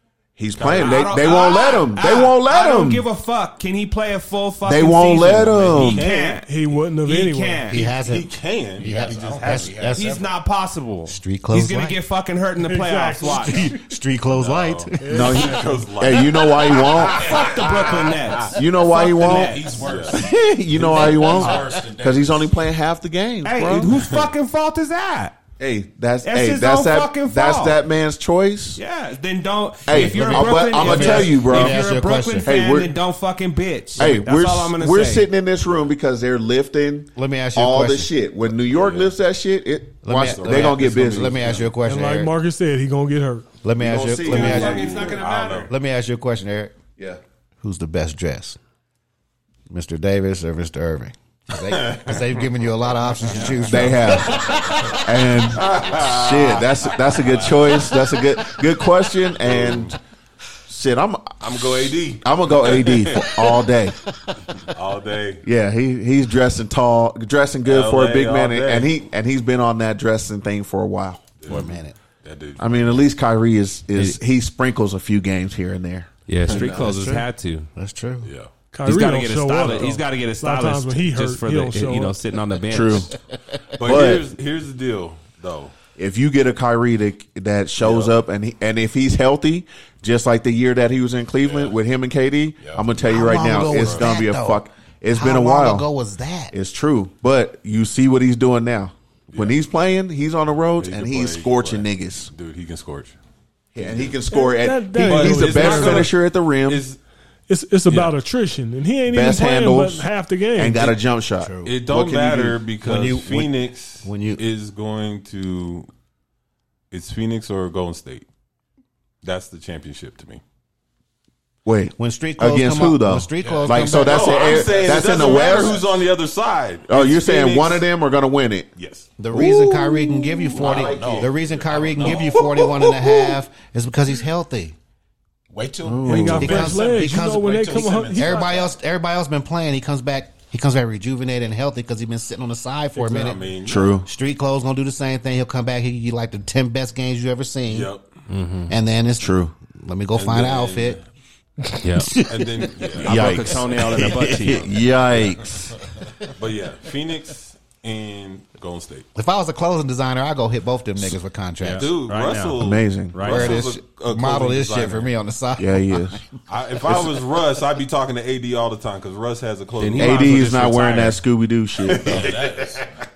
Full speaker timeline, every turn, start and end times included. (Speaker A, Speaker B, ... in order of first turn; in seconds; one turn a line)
Speaker A: 0.4-3.1
Speaker B: 0.6-1.2
Speaker C: 0.6-6.5
Speaker A: 4.6-6.0
Speaker B: 5.7-6.4
Speaker D: 6.4-7.7
Speaker C: 7.0-7.9
Speaker E: 7.7-10.2
Speaker B: 7.7-9.9
Speaker F: 8.8-10.3
Speaker C: 9.9-13.7
Speaker E: 11.1-12.0
Speaker D: 12.6-13.8
Speaker E: 13.3-15.4
Speaker B: 14.2-17.9
Speaker D: 15.0-15.9
Speaker A: 15.1-17.3
Speaker F: 17.0-18.2
Speaker C: 17.1-19.8
Speaker A: 18.5-24.0
Speaker F: 19.1-22.5
Speaker B: 19.8-20.2
Speaker B: 20.9-21.5
Speaker E: 21.2-21.5
Speaker C: 23.4-25.4
Speaker B: 23.9-24.3
Speaker A: 25.6-28.8
Speaker C: 26.2-27.8
Speaker C: 28.8-35.3
Speaker A: 29.9-31.9
Speaker E: 29.9-32.5
Speaker A: 32.4-33.0
Speaker A: 34.0-41.4
Speaker E: 37.1-38.1
Speaker B: 38.7-39.1
Speaker E: 40.0-42.3
Speaker B: 40.2-41.8
Speaker D: 41.8-43.5
Speaker E: 43.6-44.9
Speaker A: 43.8-44.9
Speaker B: 44.2-45.7
Speaker C: 44.3-45.7
Speaker E: 45.7-46.7
Speaker E: 47.6-48.6
Speaker E: 49.7-54.5
Speaker B: 51.7-52.2
Speaker B: 53.3-54.9
Speaker A: 53.6-60.0
Speaker B: 55.5-57.9
Speaker B: 59.4-60.0
Speaker A: 60.7-61.5
Speaker B: 61.4-63.4
Speaker A: 62.1-64.0
Speaker B: 64.5-65.4
Speaker A: 65.4-71.3
Speaker B: 67.6-68.9
Speaker B: 71.4-72.9
Speaker E: 71.5-72.0
Speaker A: 72.6-77.1
Speaker C: 76.3-77.7
Speaker E: 76.5-77.2
Speaker E: 77.8-78.3
Speaker B: 78.2-78.5
Speaker D: 78.7-82.2
Speaker C: 78.8-83.1
Speaker A: 82.7-83.1
Speaker B: 83.8-85.7
Speaker A: 83.8-84.2
Speaker A: 86.0-95.8
Speaker B: 87.8-88.1
Speaker E: 93.0-96.5
Speaker B: 93.7-94.0
Speaker A: 96.5-102.3
Speaker B: 99.3-99.6
Speaker B: 100.8-103.2
Speaker A: 103.7-106.8
Speaker B: 103.8-104.2
Speaker D: 104.2-106.1
Speaker B: 105.0-107.0
Speaker D: 107.5-111.0
Speaker B: 107.9-108.2
Speaker A: 109.1-112.6
Speaker E: 111.4-111.8
Speaker B: 111.6-115.9
Speaker E: 112.8-114.4
Speaker B: 116.9-118.2
Speaker B: 119.2-120.4
Speaker A: 121.6-125.8
Speaker E: 122.0-124.5
Speaker F: 123.4-125.8
Speaker B: 123.9-127.8
Speaker A: 126.9-128.7
Speaker B: 128.8-129.1
Speaker E: 129.2-134.7
Speaker A: 129.3-131.3
Speaker B: 130.6-131.0
Speaker F: 130.6-132.4
Speaker B: 132.0-133.2
Speaker F: 135.5-138.7
Speaker A: 135.8-136.7
Speaker D: 136.1-138.7
Speaker E: 136.4-147.9
Speaker B: 142.9-144.0
Speaker A: 143.6-144.1
Speaker B: 147.7-148.1
Speaker C: 148.3-148.7
Speaker E: 148.7-151.0
Speaker A: 149.2-149.5
Speaker B: 150.1-151.0
Speaker E: 151.7-153.0
Speaker C: 151.8-152.2
Speaker B: 152.2-153.5
Speaker A: 153.0-155.8
Speaker C: 153.0-154.8
Speaker B: 155.1-155.4
Speaker B: 156.3-159.1
Speaker E: 159.1-161.9
Speaker C: 161.6-163.6
Speaker B: 161.7-165.1
Speaker A: 162.6-163.3
Speaker E: 163.2-166.2
Speaker A: 165.6-166.2
Speaker B: 166.5-170.4
Speaker C: 169.8-171.2
Speaker A: 169.9-172.4
Speaker B: 171.8-172.8
Speaker F: 171.9-172.9